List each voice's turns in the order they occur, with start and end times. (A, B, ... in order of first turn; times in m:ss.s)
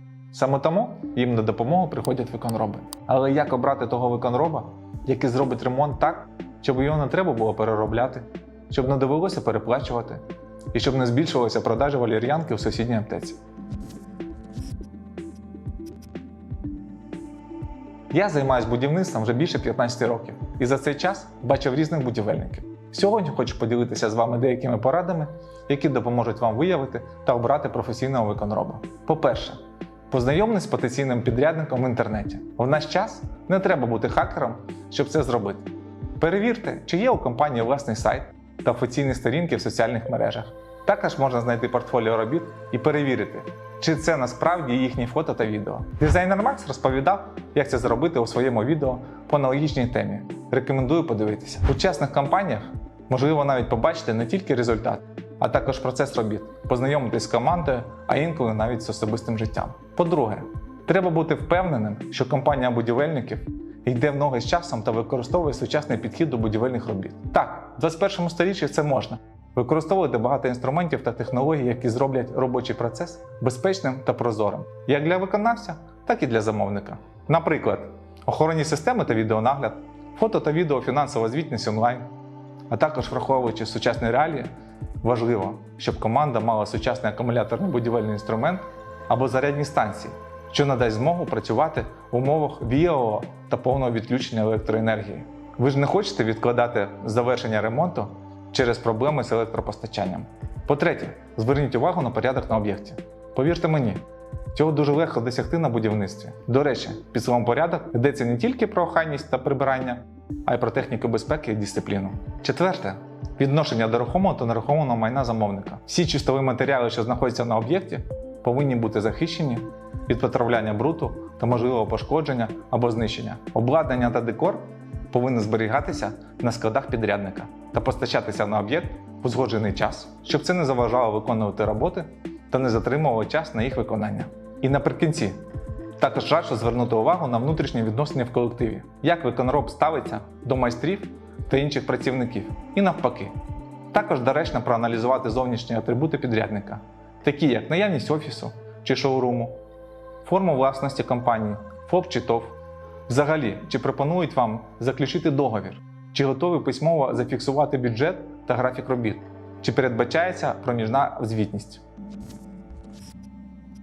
0:00.3-0:13.4 A
0:18.1-0:29.6 A
0:30.1-1:22.1 A
1:22.7-1:24.5 A
1:25.0-2:15.4 A
2:16.0-2:23.4 A
2:23.9-2:29.6 A
2:30.2-2:32.6 A
2:33.1-2:41.8 A